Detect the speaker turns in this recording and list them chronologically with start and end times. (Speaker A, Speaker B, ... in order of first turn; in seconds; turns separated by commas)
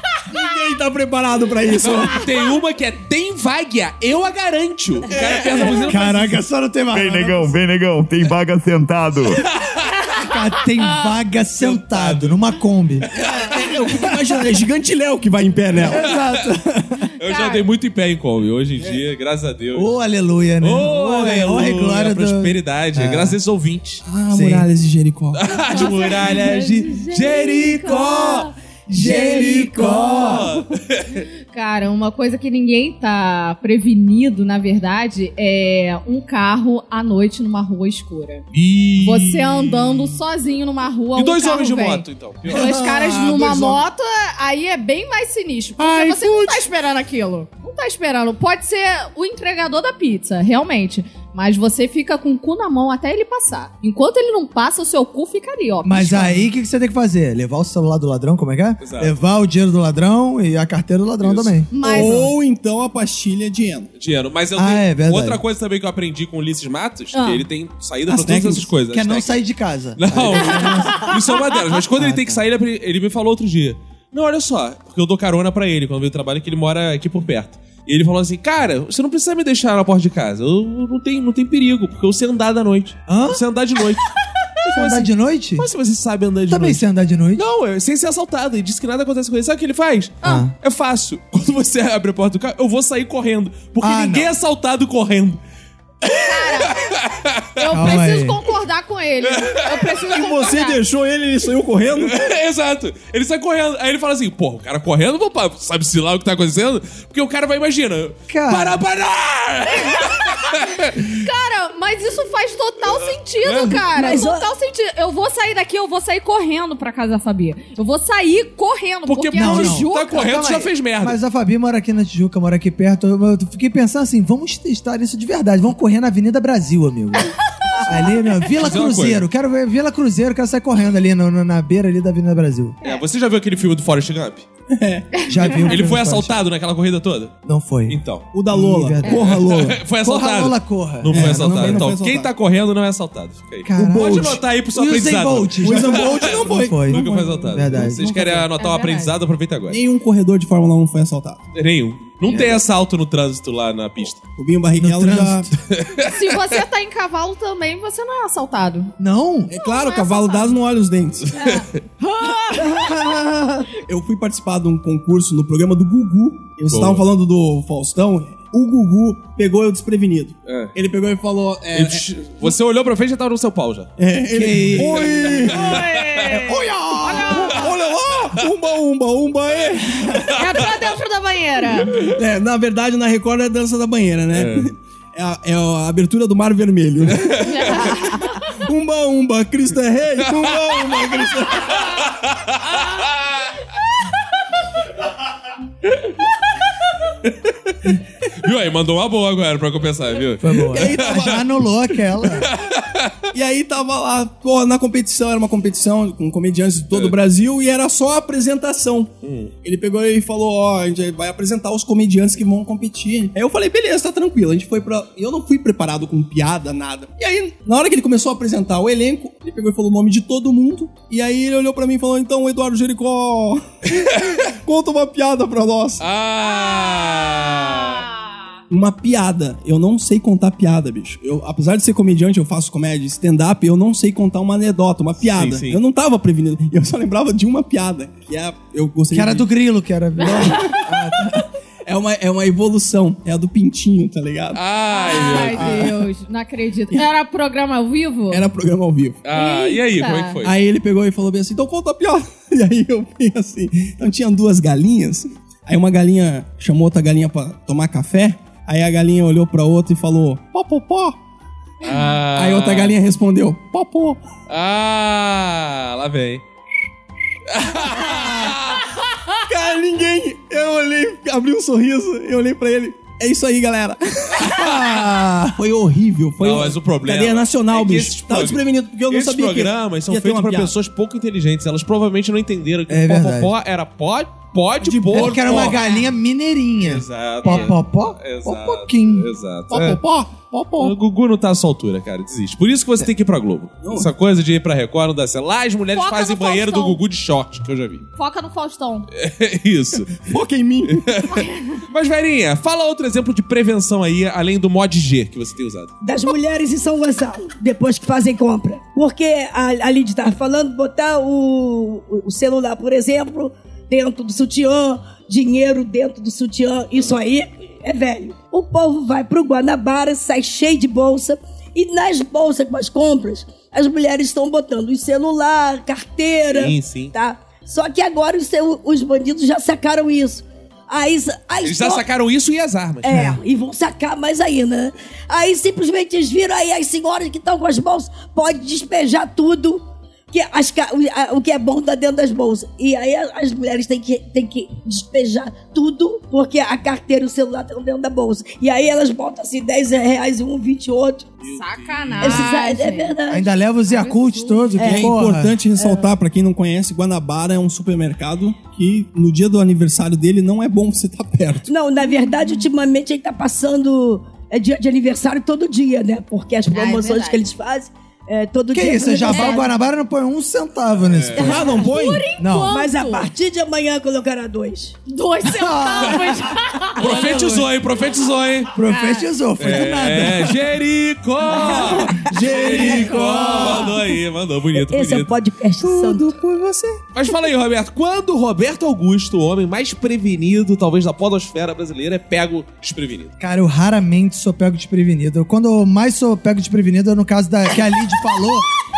Speaker A: 0.3-2.2, Speaker B: 1.8-6.4, Speaker A: 5.1-5.9, Speaker C: 5.8-7.6, Speaker D: 6.9-9.4, Speaker B: 9.6-9.9, Speaker C: 10.2-13.1, Speaker B: 11.6-12.4, Speaker B: 13.1-13.6, Speaker A: 13.1-16.1, Speaker C: 15.8-17.0, Speaker B: 16.0-16.4, Speaker B: 17.2-19.9, Speaker E: 17.2-17.6, Speaker C: 19.7-23.4, Speaker B: 20.6-24.0, Speaker A: 24.0-25.4, Speaker C: 24.3-24.7, Speaker B: 25.4-28.5, Speaker E: 25.7-30.5, Speaker C: 28.9-30.5, Speaker A: 28.9-30.0, Speaker B: 29.0-31.2, Speaker E: 31.5-38.5, Speaker B: 38.5-40.1, Speaker E: 39.0-56.5, Speaker B: 41.1-42.7, Speaker A: 42.5-43.8, Speaker A: 46.0-46.3, Speaker C: 55.8-62.2, Speaker B: 58.8-59.1, Speaker B: 61.2-61.5, Speaker E: 61.7-62.3, Speaker A: 61.8-63.9, Speaker B: 64.0-69.3, Speaker C: 64.5-65.4, Speaker E: 67.1-67.4, Speaker A: 68.1-68.7, Speaker C: 68.9-71.1, Speaker B: 70.0-86.8, Speaker C: 71.9-72.4, Speaker C: 83.1-83.4, Speaker C: 84.7-85.7, Speaker C: 86.5-87.4, Speaker B: 87.3-95.4, Speaker C: 90.2-90.5, Speaker C: 93.8-94.3, Speaker B: 96.0-97.6, Speaker E: 96.2-96.8, Speaker E: 97.6-100.8, Speaker C: 97.7-98.4, Speaker B: 99.3-99.8, Speaker A: 100.1-102.3, Speaker B: 102.0-111.1, Speaker C: 108.3-108.8, Speaker E: 111.0-120.3, Speaker B: 113.4-113.8, Speaker F: 113.9-114.5, Speaker B: 119.1-121.2, Speaker C: 119.3-132.8, Speaker B: 128.6-129.2, Speaker B: 132.8-134.4, Speaker A: 134.7-135.2, Speaker C: 135.3-136.3, Speaker B: 135.7-137.3, Speaker C: 137.4-138.0, Speaker B: 137.9-138.2, Speaker A: 138.3-139.8, Speaker C: 138.5-139.4, Speaker B: 139.2-149.8, Speaker C: 140.0-141.9, Speaker A: 141.1-142.3, Speaker C: 143.7-148.4, Speaker A: 143.8-144.4, Speaker A: 145.6-148.3, Speaker E: 148.6-149.1, Speaker A: 149.7-151.4, Speaker B: 151.5-154.2, Speaker C: 152.3-152.6, Speaker A: 154.3-155.5, Speaker C: 154.8-155.5, Speaker B: 155.7-156.1, Speaker E: 156.0-158.9, Speaker C: 159.0-159.5, Speaker A: 159.5-161.3, Speaker E: 159.6-160.5, Speaker B: 161.4-161.7, Speaker E: 161.4-163.1, Speaker A: 163.7-172.0, Speaker B: 166.7-167.0, Speaker B: 170.4-170.7, Speaker B: 171.7-173.9, Speaker A: 174.0-175.8, Speaker C: 174.3-175.4, Speaker B: 174.7-176.3, Speaker E: 175.5-177.7, Speaker C: 176.3-177.6, Speaker A: 177.2-180.3, Speaker E: 180.3-181.9, Speaker A: 182.0-191.8, Speaker B: 184.3-184.6, Speaker E: 187.4-188.4, Speaker B: 191.7-193.4, Speaker B: 198.4-201.4, Speaker C: 200.4-202.5, Speaker A: 200.7-201.4, Speaker B: 202.4-203.2, Speaker A: 203.3-209.1, Speaker B: 209.2-209.5, Speaker A: 209.6-226.0, Speaker B: 226.0-228.0, Speaker E: 226.5-228.4, Speaker A: 228.7-239.5, Speaker B: 235.2-235.8, Speaker C: 239.1-241.4, Speaker E: 240.2-240.7, Speaker A: 241.8-244.6, Speaker B: 244.5-245.9, Speaker E: 244.9-248.4, Speaker A: 245.3-245.9, Speaker A: 248.3-249.2, Speaker B: 249.2-250.5, Speaker E: 249.3-250.4, Speaker A: 250.4-261.1, Speaker B: 261.8-262.9, Speaker A: 262.3-264.2, Speaker B: 264.5-266.4, Speaker B: 267.5-268.9, Speaker C: 267.9-268.6, Speaker A: 269.5-274.5, Speaker C: 274.4-275.6, Speaker A: 275.5-280.7, Speaker B: 276.4-285.8, Speaker C: 282.9-283.5, Speaker A: 284.8-285.8, Speaker C: 285.1-289.3, Speaker E: 285.8-286.1, Speaker B: 286.8-290.0, Speaker A: 289.7-290.9, Speaker B: 290.8-298.1, Speaker A: 293.8-294.1, Speaker E: 295.9-297.0, Speaker E: 298.2-299.1, Speaker B: 299.1-300.2, Speaker A: 300.3-301.4, Speaker B: 300.9-305.9, Speaker F: 306.0-332.0, Speaker B: 326.5-327.1, Speaker B: 331.6-333.3, Speaker F: 333.0-351.3, Speaker C: 333.1-333.4, Speaker E: 351.5-353.2, Speaker B: 351.5-352.5, Speaker F: 352.2-353.5, Speaker C: 353.3-355.6, Speaker E: 353.8-354.8, Speaker F: 354.8-355.1, Speaker A: 354.8-361.7, Speaker F: 355.8-356.1, Speaker F: 361.7-369.7, Speaker E: 366.7-367.4, Speaker C: 368.7-371.7, Speaker E: 369.3-369.6, Speaker B: 371.1-371.4, Speaker A: 371.4-372.2, Speaker E: 371.5-373.3, Speaker C: 372.4-372.7, Speaker F: 372.7-375.0, Speaker E: 375.1-377.6, Speaker C: 375.4-376.5, Speaker B: 377.0-378.7, Speaker C: 377.0-377.6, Speaker C: 378.7-380.6, Speaker E: 378.9-379.2, Speaker B: 379.6-385.3, Speaker F: 381.6-383.9, Speaker A: 381.8-383.7, Speaker C: 382.3-383.9, Speaker F: 384.7-386.4, Speaker A: 385.8-387.0, Speaker B: 387.1-393.3, Speaker C: 393.4-398.6